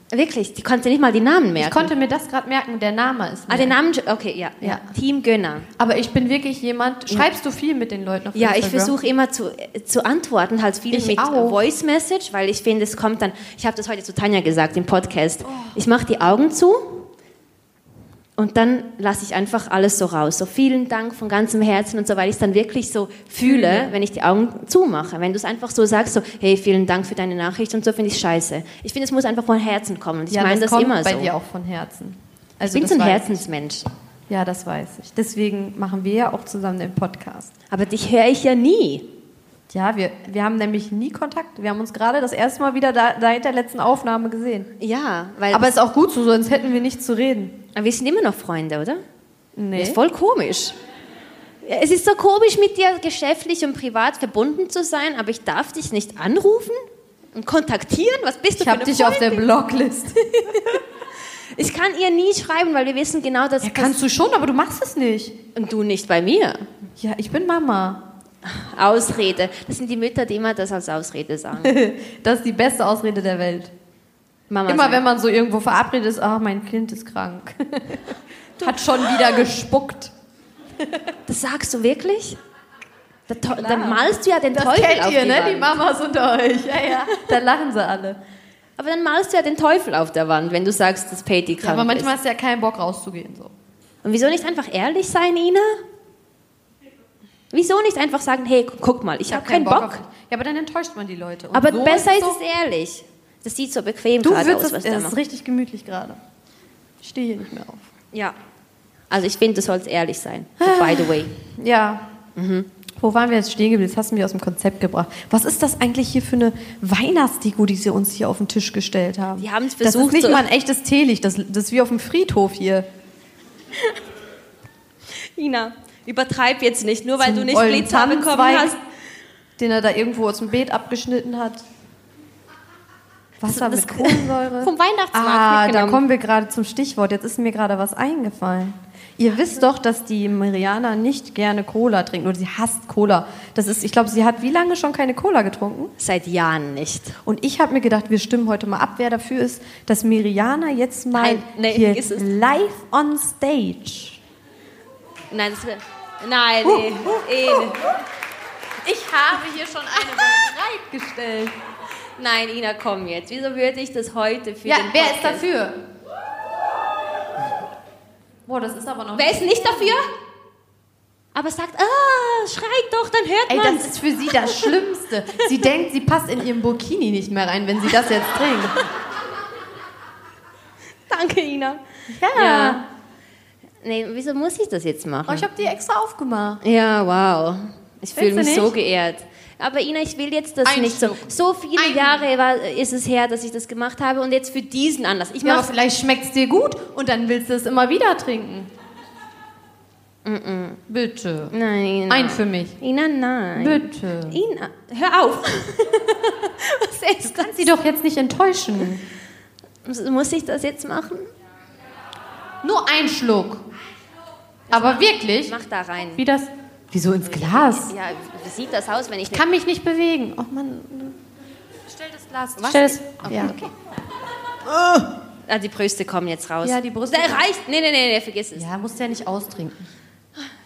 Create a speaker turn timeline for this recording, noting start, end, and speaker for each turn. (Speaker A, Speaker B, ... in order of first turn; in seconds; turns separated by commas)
Speaker A: 0.1-1.9, Speaker B: 1.6-3.8, Speaker A: 3.5-5.7, Speaker B: 4.6-4.9, Speaker B: 5.8-8.9, Speaker A: 8.3-17.1, Speaker B: 10.9-11.6, Speaker A: 18.4-31.3, Speaker B: 23.4-23.9, Speaker B: 30.3-33.4, Speaker A: 32.6-33.9, Speaker B: 34.3-37.5, Speaker A: 37.7-39.1, Speaker B: 39.7-44.7, Speaker A: 44.8-45.6, Speaker B: 45.5-47.6, Speaker A: 47.7-49.0, Speaker B: 49.5-50.0, Speaker A: 49.8-50.7, Speaker A: 51.6-59.5, Speaker B: 58.5-60.8, Speaker A: 61.5-64.0, Speaker B: 63.6-65.4, Speaker A: 65.5-66.6, Speaker B: 67.0-68.0, Speaker A: 68.4-71.7, Speaker B: 71.6-73.7, Speaker A: 74.5-75.0, Speaker B: 74.7-80.1, Speaker A: 81.3-82.4, Speaker A: 83.3-85.8, Speaker B: 83.5-88.2, Speaker A: 88.8-92.1, Speaker B: 91.6-93.5, Speaker A: 94.0-95.8, Speaker A: 97.5-100.0, Speaker B: 99.3-102.4, Speaker A: 101.5-105.1, Speaker B: 104.2-106.2, Speaker B: 107.0-107.8, Speaker A: 109.1-111.3, Speaker B: 110.6-112.0, Speaker A: 112.3-112.7, Speaker B: 113.0-122.9, Speaker A: 119.4-120.4, Speaker A: 125.3-128.8, Speaker B: 127.2-128.8, Speaker B: 129.6-131.6, Speaker B: 133.4-145.9, Speaker A: 133.4-136.0, Speaker A: 146.0-147.1, Speaker B: 147.2-154.2, Speaker A: 151.1-152.3, Speaker A: 155.3-157.9, Speaker B: 156.6-157.8, Speaker B: 158.8-161.5, Speaker A: 162.2-165.4, Speaker B: 164.6-165.8, Speaker B: 168.4-169.9, Speaker A: 169.1-170.1, Speaker A: 171.3-174.0, Speaker B: 173.5-178.7, Speaker A: 181.1-181.8, Speaker B: 182.1-182.8, Speaker A: 182.3-182.8, Speaker A: 183.8-185.5, Speaker B: 185.3-186.6, Speaker A: 186.6-195.7, Speaker B: 188.1-188.7, Speaker B: 190.6-192.2, Speaker B: 195.4-198.7, Speaker A: 200.2-200.8, Speaker B: 200.9-201.6, Speaker A: 201.5-207.7, Speaker B: 202.1-202.8, Speaker B: 203.6-204.4, Speaker B: 207.2-209.0, Speaker A: 209.8-211.3, Speaker B: 212.6-213.7, Speaker B: 214.7-215.6, Speaker A: 214.7-216.2, Speaker B: 216.2-217.9, Speaker A: 217.2-219.4, Speaker B: 219.3-221.2, Speaker B: 221.9-223.6, Speaker A: 222.6-223.7, Speaker A: 225.5-228.7, Speaker B: 226.6-227.4, Speaker B: 228.5-229.9